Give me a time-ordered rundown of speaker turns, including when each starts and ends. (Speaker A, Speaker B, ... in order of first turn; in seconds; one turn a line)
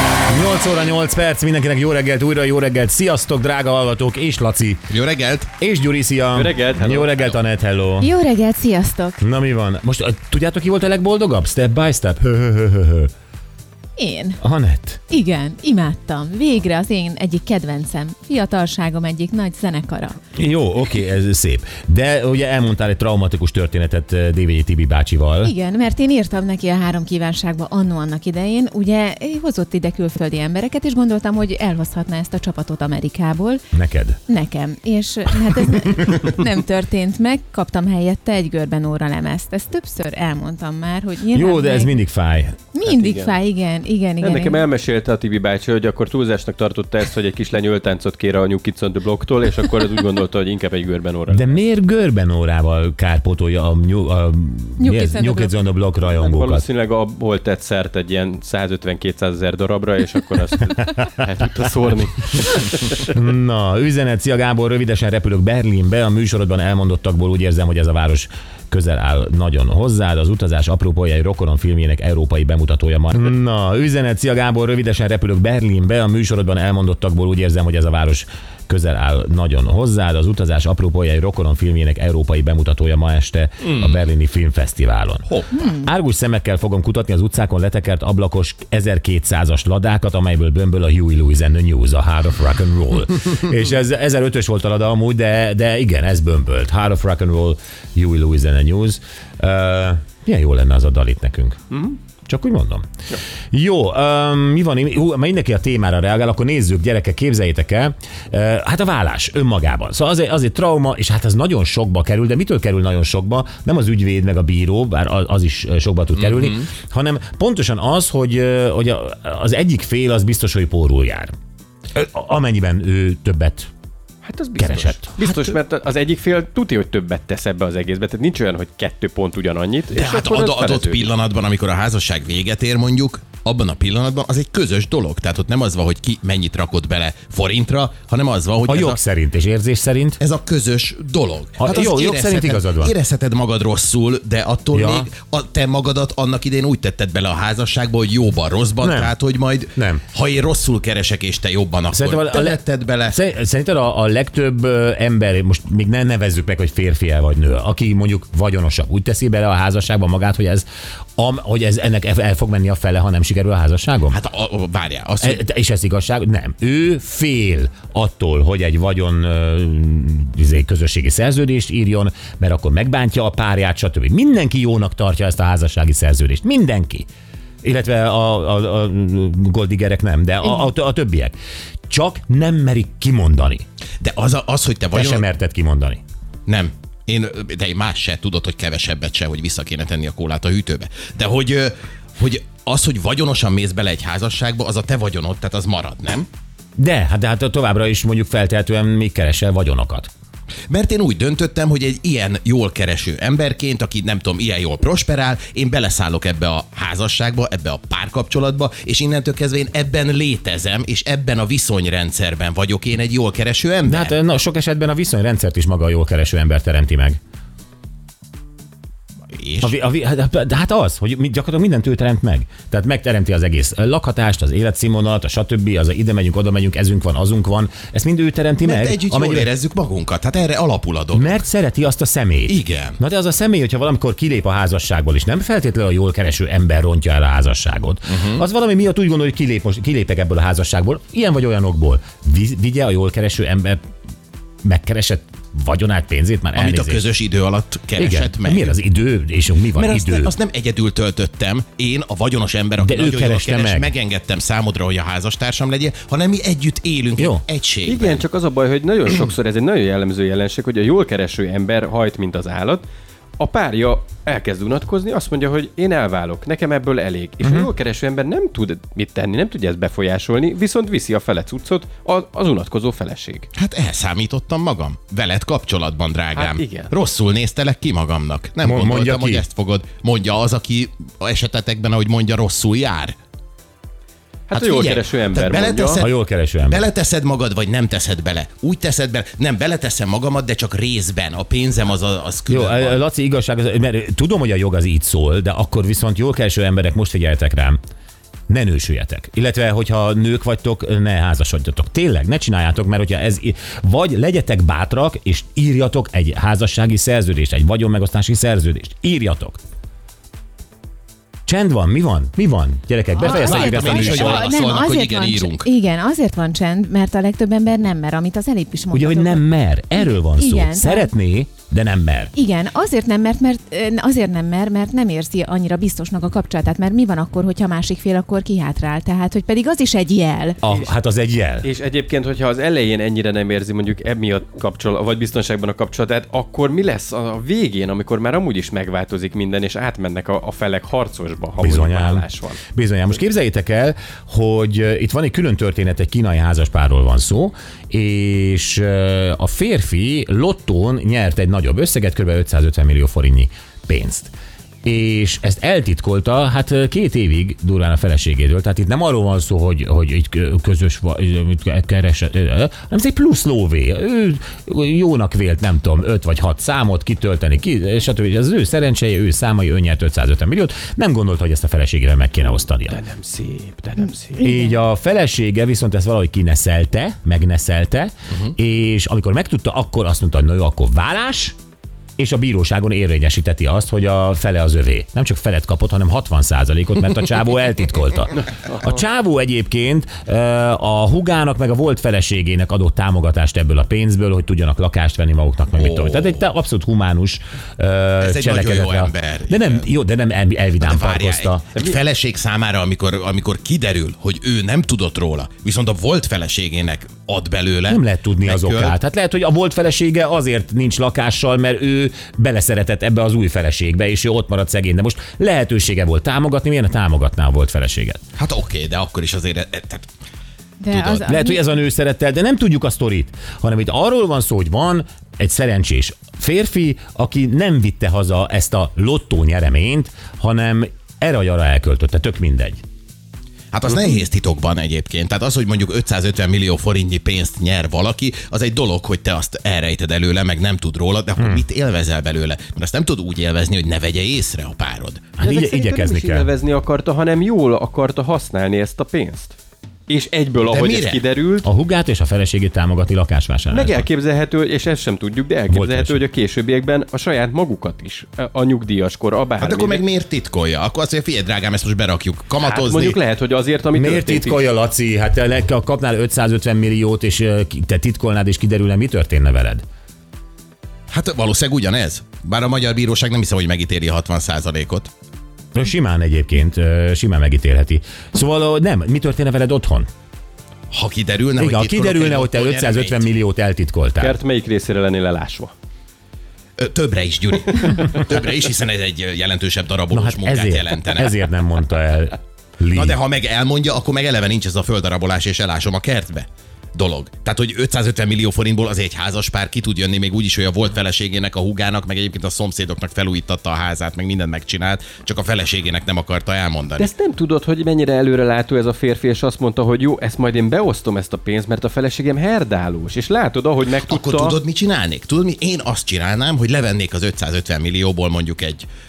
Speaker A: 0.3-4.9
Speaker B: 4.9-5.5
Speaker A: 5.6-8.1
Speaker C: 6.3-7.3
Speaker D: 8.0-9.2
Speaker A: 9.2-13.1
Speaker D: 14.0-14.4
Speaker A: 14.4-15.0
Speaker D: 15.1-20.2
Speaker A: 20.4-25.5
Speaker D: 25.4-33.6
Speaker A: 33.7-34.2
Speaker D: 34.3-42.0
Speaker A: 41.3-42.6
Speaker D: 42.7-44.6
Speaker C: 42.9-43.4
Speaker C: 44.2-51.6
Speaker A: 51.3-56.6
Speaker D: 54.8-55.5
Speaker C: 56.0-63.0
Speaker A: 63.1-101.6
Speaker B: 83.6-84.0
Speaker B: 85.3-85.5
Speaker C: 101.7-102.0
Speaker A: 102.2-102.9
Speaker A: 103.5-121.3
Speaker B: 116.2-116.6
Speaker A: 121.9-123.7
Speaker C: 124.2-131.1
Speaker A: 124.6-125.1
Speaker B: 129.9-139.0
Speaker A: 138.7-140.2
Speaker B: 140.2-153.2
Speaker A: 141.6-142.9
Speaker A: 144.7-145.1
Speaker A: 148.8-149.1
Speaker A: 149.8-150.0
Speaker A: 151.9-164.2
Speaker B: 164.1-165.4
Speaker A: 165.2-177.1
Speaker A: 177.6-181.3
Speaker A: 181.9-183.7
Speaker B: 184.0-185.3
Speaker A: 184.9-186.0
Speaker B: 186.5-196.3
Speaker A: 196.8-200.1
Speaker B: 200.7-214.2
Speaker A: 213.9-217.2
Speaker B: 219.3-219.7
Speaker A: 219.6-229.5
Speaker B: 228.6-231.4
Speaker A: 231.1-243.8
Speaker B: 232.5-233.0
Speaker B: 238.1-238.4
Speaker A: 244.7-247.1
Speaker B: 246.5-248.8
Speaker A: 248.0-250.3
Speaker B: 249.8-258.2
Speaker A: 252.8-253.9
Speaker A: 257.2-257.4
Speaker C: 257.9-262.8
Speaker C: 263.4-273.5
Speaker A: 267.4-267.7
Speaker B: 273.5-283.1
Speaker C: 276.3-276.9
Speaker A: 278.6-279.4
Speaker C: 284.5-286.0
Speaker B: 284.5-293.0
Speaker A: 286.0-286.9
Speaker A: 292.5-297.8
Speaker A: 298.5-309.6
Speaker A: 311.5-314.5
Speaker D: 313.2-321.1
Speaker B: 313.2-315.7
Speaker A: 318.9-322.3
Speaker D: 322.3-330.6
Speaker A: 330.6-331.7
Speaker C: 331.6-342.6
Speaker A: 341.6-354.3
Speaker A: 354.8-373.0
Speaker C: 372.9-374.5
Speaker A: 374.4-381.5
Speaker A: 382.2-401.6
Speaker B: 395.7-396.4
Speaker B: 398.2-399.8
Speaker B: 400.8-408.9
Speaker A: 407.9-418.2
Speaker B: 418.4-420.1
Speaker D: 420.8-421.6
Speaker B: 420.9-421.2
Speaker A: 421.0-432.8
Speaker B: 433.7-445.3
Speaker A: 441.4-441.6
Speaker A: 445.4-446.5
Speaker C: 445.4-449.5
Speaker C: 450.1-451.7
Speaker B: 450.6-451.2
Speaker A: 451.6-454.1
Speaker C: 453.7-460.0
Speaker A: 455.7-456.2
Speaker B: 459.6-463.2
Speaker C: 462.6-464.7
Speaker A: 463.9-469.8
Speaker B: 471.1-475.1
Speaker A: 475.7-480.1
Speaker B: 480.9-483.3
Speaker A: 481.6-484.4
Speaker C: 484.2-485.7
Speaker B: 486.8-491.4
Speaker A: 490.1-493.2
Speaker B: 492.9-507.1
Speaker C: 507.0-514.6
Speaker B: 514.1-518.9